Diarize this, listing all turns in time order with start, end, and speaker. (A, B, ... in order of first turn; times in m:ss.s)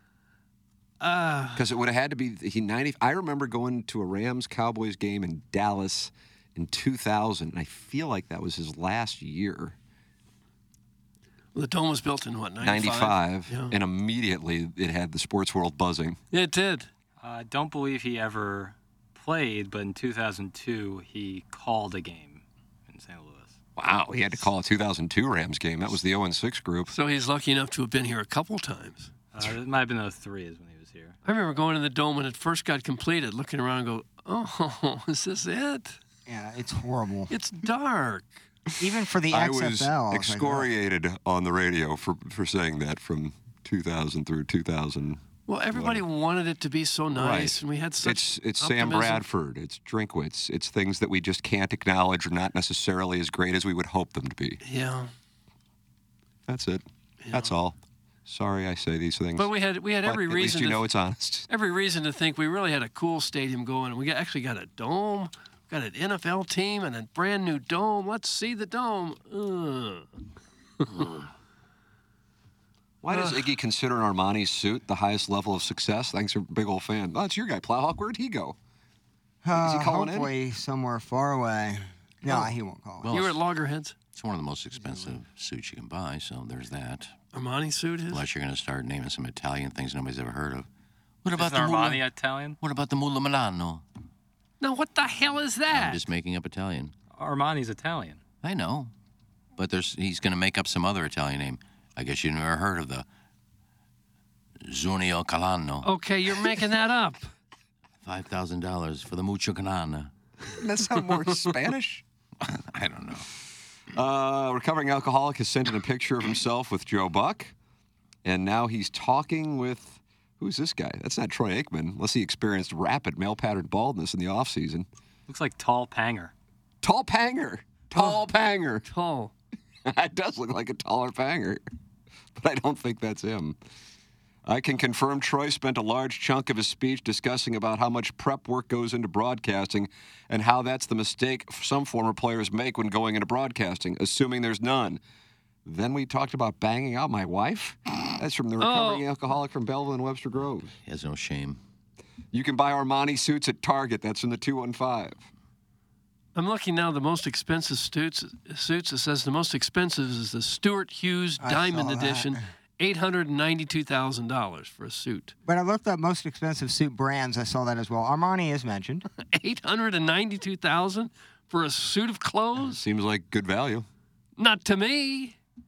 0:01.0-0:01.6 A
0:01.6-0:09.8 B
0:11.5-0:13.7 A
0:12.6-0:16.2 B
0:16.3-0:16.9 A
0:17.2-0:23.6 C
0:23.8-0:26.9 B
0:26.9-0:29.1 A
0:29.3-0:31.1 C
0:31.2-0:36.0 A
0:36.3-0:37.3 D
0:37.3-0:38.4 A
0:38.8-0:40.7 D
0:39.3-0:46.0 B
0:45.5-0:49.2 A
0:47.1-0:54.6 B
0:54.6-0:55.1 A
0:56.5-0:59.5 B
0:57.2-0:57.5 A
0:59.4-1:00.8 A
1:00.0-1:01.5 B
1:01.5-1:10.1 A
1:10.8-1:11.2 A
1:13.0-1:18.6 B
1:19.4-1:23.1 D
1:19.5-1:20.3 B
1:22.2-1:22.5 A
1:23.0-1:23.4 E
1:23.1-1:23.9 A
1:24.1-1:27.1 E
1:27.3-1:28.2 A
1:28.1-1:30.7 E
1:31.2-1:32.0 E
1:31.4-1:32.6 C
1:32.6-1:33.8 E
1:34.6-1:36.0 A
1:35.7-1:36.9 E
1:37.2-1:38.2 C
1:38.4-1:38.9 E
1:39.6-1:43.0 E
1:44.6-1:45.9 E
1:45.8-1:47.3 A
1:48.0-1:50.1 E
1:50.5-1:52.0 B
1:52.4-1:53.3 E
1:53.9-1:57.5 B
1:58.2-2:04.8 B
2:05.3-2:06.3 C
2:06.8-2:08.9 B
2:08.9-2:09.3 A
2:09.8-2:11.6 B
2:12.4-2:13.6 B
2:14.4-2:25.0 B
2:25.6-2:30.7 B
2:28.6-2:29.0 A
2:30.8-2:31.6 E
2:32.3-2:35.2 B
2:36.3-2:45.3 A
2:41.4-2:42.4 D
2:45.4-2:49.1 D
2:49.2-2:52.8 A
2:52.6-2:53.9 B
2:54.4-2:55.4 A